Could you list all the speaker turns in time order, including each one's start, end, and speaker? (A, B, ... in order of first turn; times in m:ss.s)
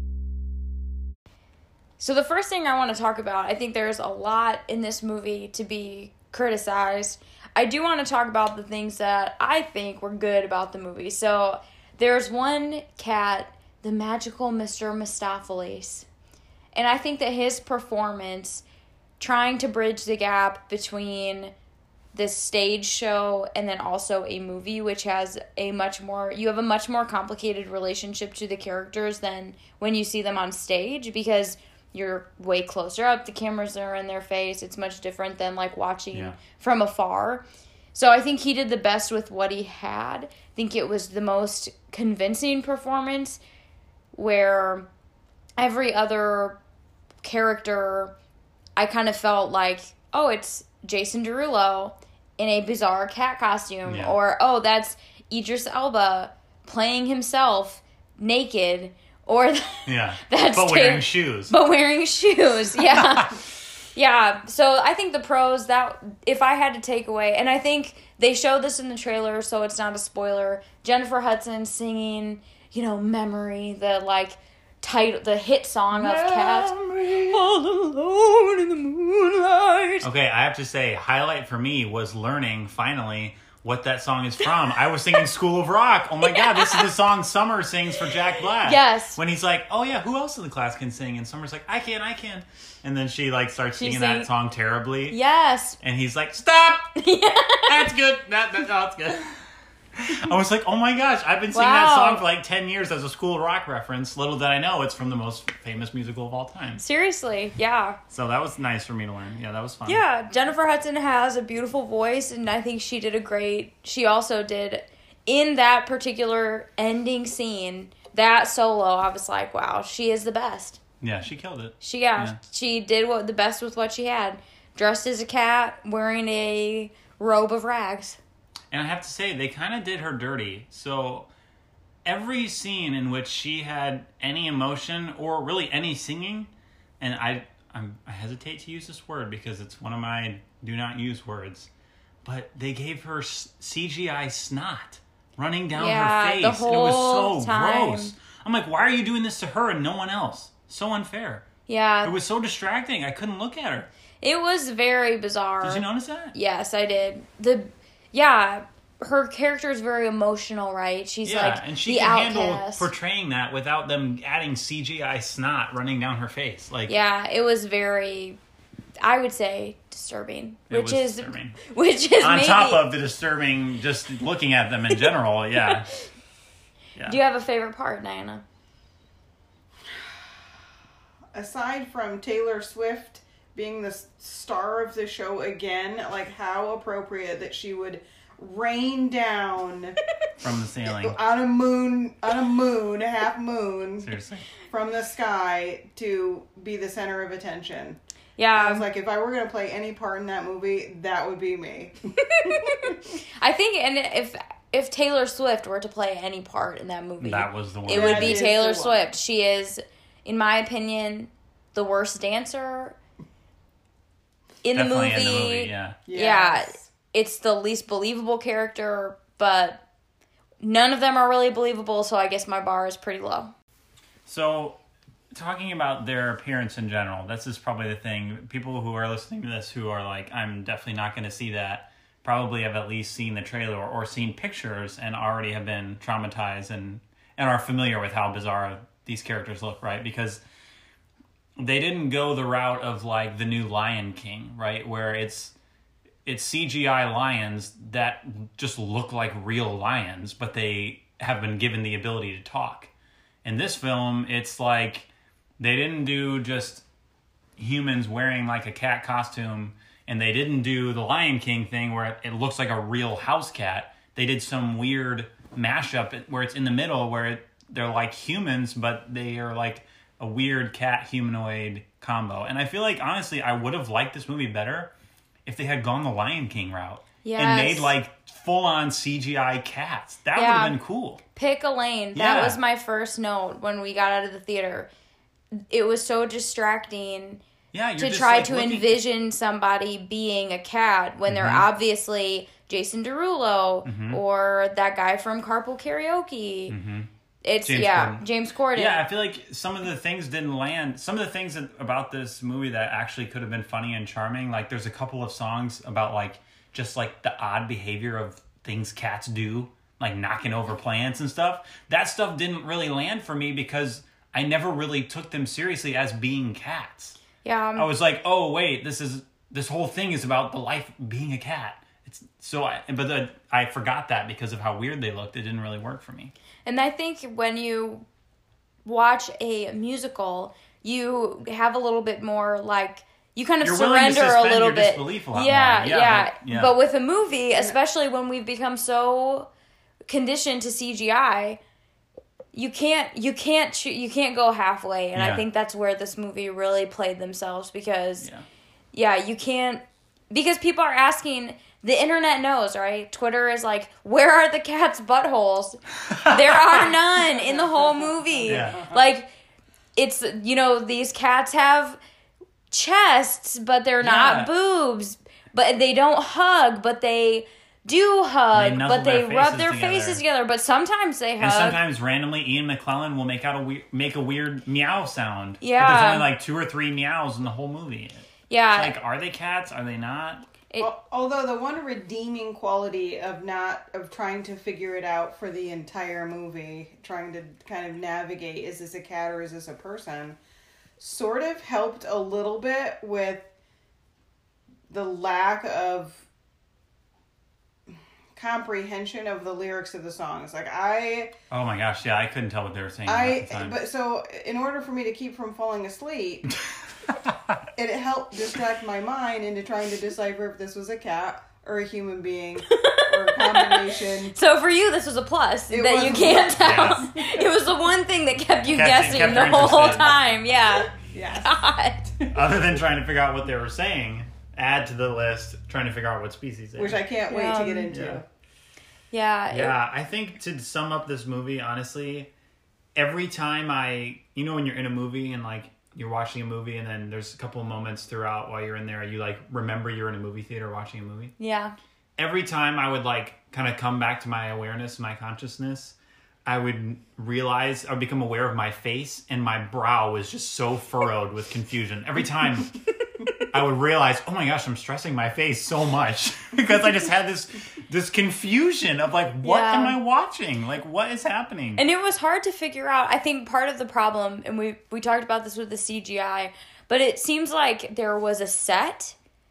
0:02.0-0:16.1 A
0:16.7-0:18.6 A
0:19.2-0:21.5 A
0:22.1-0:43.4 A
0:36.1-0:36.4 B
0:44.1-0:44.9 A
0:45.6-0:46.6 A
0:47.2-0:48.2 A
0:48.8-1:20.1 A
0:53.8-0:54.2 B
0:59.8-1:01.5 B
1:02.9-1:03.2 B
1:15.9-1:17.5 B
1:20.0-1:35.2 B
1:26.3-1:26.9 A
1:28.1-1:29.2 A
1:33.8-1:34.3 A
1:35.1-1:35.8 A
1:35.8-1:36.9 B
1:37.0-1:37.8 A
1:37.6-1:39.3 B
1:40.0-1:46.8 B
1:41.5-1:42.2 A
1:46.8-1:48.0 A
1:48.1-1:50.0 B
1:49.8-2:00.8 A
2:01.0-2:02.4 B
2:01.8-2:08.2 A
2:08.7-2:11.3 B
2:12.0-2:21.7 B
2:22.2-2:31.4 B
2:25.7-2:28.1 A
2:31.7-2:32.1 A
2:32.0-2:33.9 B
2:34.2-2:42.9 A
2:35.6-2:36.3 B
2:41.2-2:47.0 B
2:46.9-2:48.4 A
2:49.0-2:52.8 A
2:50.7-2:51.6 B
2:52.2-2:55.9 B
2:55.6-2:56.1 A
2:57.0-2:58.4 A
2:59.9-3:00.4 C
3:01.3-3:10.0 C
3:10.4-3:11.2 B
3:11.0-3:18.0 C
3:14.0-3:14.5 B
3:18.4-3:18.8 A
3:18.5-3:23.1 C
3:22.3-3:33.0 A
3:27.2-3:28.4 B
3:27.9-3:29.1 C
3:34.6-3:39.8 A
3:34.7-3:36.0 B
3:36.1-3:36.9 C
3:40.6-3:43.5 A
3:44.3-3:44.8 B
3:45.3-4:00.4 B
4:01.6-4:05.5 B
4:06.2-4:12.9 B
4:13.4-4:16.8 B
4:17.6-4:34.9 B
4:35.4-4:41.2 B
4:37.2-4:37.9 A
4:40.3-4:40.8 A
4:41.3-4:44.9 A
4:42.1-4:42.6 B
4:45.7-4:47.4 A
4:47.7-4:49.0 B
4:48.0-4:56.8 A
4:51.3-4:51.7 B
4:53.8-4:54.2 B
4:56.7-4:57.1 B
4:57.4-4:59.0 A
4:57.6-4:58.2 B
4:58.7-5:17.2 B
5:17.4-5:17.9 A
5:17.7-5:26.3 B
5:26.6-5:28.0 A
5:28.8-5:39.5 A
5:33.6-5:36.7 B
5:40.1-5:41.6 A
5:42.5-5:48.3 A
5:45.1-5:45.4 B
5:48.9-5:59.3 A
5:56.1-5:56.8 B
5:57.3-5:59.0 C
5:58.5-5:58.8 B
6:00.0-6:02.0 A
6:02.7-6:11.8 A
6:04.0-6:04.5 B
6:08.5-6:10.2 B
6:11.4-6:20.4 B
6:15.6-6:16.3 A
6:18.5-6:19.0 A
6:20.8-6:30.4 C
6:31.0-6:33.5 C
6:34.9-6:36.2 C
6:38.3-6:41.3 C
6:41.5-6:43.8 B
6:43.0-6:46.5 C
6:47.1-6:47.3 B
6:47.8-6:54.4 C
6:52.7-7:02.0 A
6:55.7-6:57.4 C
6:56.6-6:57.0 B
6:58.7-7:00.1 B
7:00.9-7:01.6 C
7:02.2-7:02.4 C
7:02.3-7:07.0 B
7:06.8-7:08.2 C
7:07.3-7:07.9 A
7:07.9-7:08.2 B
7:09.1-7:09.7 A
7:09.5-7:12.3 B
7:13.0-7:21.3 B
7:21.4-7:21.8 A
7:22.2-7:32.8 B
7:33.5-7:41.8 B
7:39.4-7:40.0 A
7:41.8-7:49.2 A